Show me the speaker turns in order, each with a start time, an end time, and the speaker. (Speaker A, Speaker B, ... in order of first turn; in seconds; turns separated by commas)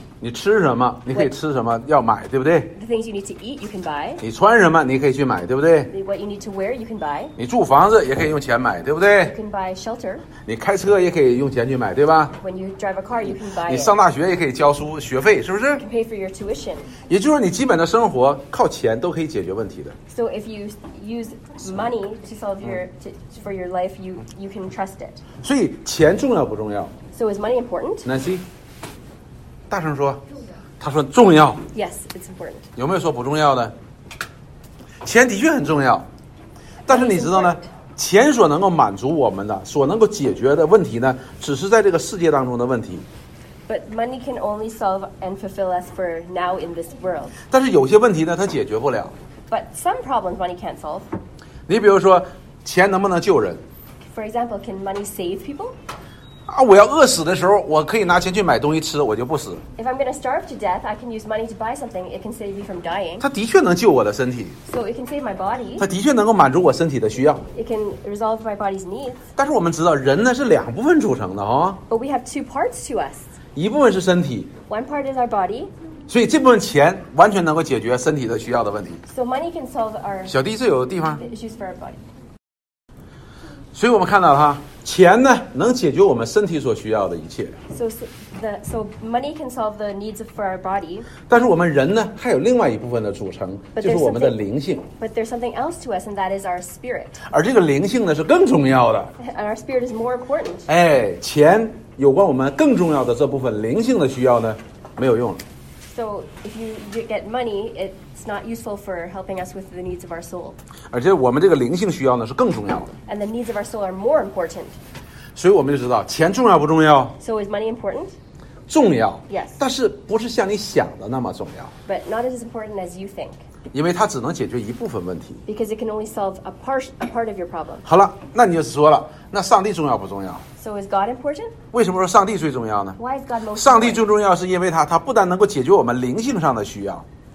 Speaker A: 0.2-2.7, Speaker B: 2.7-4.2, Speaker A: 4.2-5.9, Speaker B: 5.9-7.3, Speaker A: 7.4-9.4, Speaker B: 9.2-10.3, Speaker A: 10.4-12.3, Speaker B: 12.4-13.9, Speaker A: 13.7-15.8, Speaker B: 15.8-16.9, Speaker A: 17.1-20.0, Speaker B: 20.1-25.2, Speaker A: 25.4-26.9, Speaker B: 27.1-28.1, Speaker A: 28.1-28.4, Speaker A: 29.7-30.2, Speaker A: 30.8-31.6, Speaker B: 31.7-32.7, Speaker A: 32.8-33.7, Speaker A: 35.0-36.1, Speaker A: 36.9-43.0, Speaker B: 36.9-37.7, Speaker B: 43.7-47.4, Speaker A: 47.5-49.1, Speaker B: 49.5-51.1, Speaker A: 51.7-53.6, Speaker B: 54.1-55.8, Speaker A: 56.5-59.6, Speaker B: 59.8-63.3, Speaker A: 63.2-64.6, Speaker B: 64.7-65.9, Speaker A: 65.8-67.4, Speaker B: 67.5-69.3, Speaker A: 69.4-71.8, Speaker B: 71.9-73.3, Speaker A: 73.6-74.5, Speaker B: 74.7-75.7, Speaker A: 76.1-79.0, Speaker B: 79.1-80.4, Speaker A: 80.3-81.2, Speaker B: 81.2-82.0, Speaker A: 83.7-87.6, Speaker B: 87.7-91.1, Speaker A: 91.3-94.9, Speaker B: 93.8-94.4, Speaker B: 95.0-97.2, Speaker A: 97.3-99.1, Speaker B: 99.2-100.7, Speaker A: 100.7-105.4, Speaker B: 105.8-110.6, Speaker A: 110.9-112.9, Speaker B: 113.1-114.8, Speaker A: 115.4-117.2, Speaker B: 117.2-118.2, Speaker A: 118.7-121.7, Speaker B: 119.3-119.6, Speaker B: 121.9-123.4, Speaker A: 123.7-125.4, Speaker B: 125.5-127.9, Speaker A: 127.9-130.4, Speaker B: 130.6-131.6, Speaker A: 131.7-133.0, Speaker B: 133.0-134.1, Speaker A: 133.6-137.1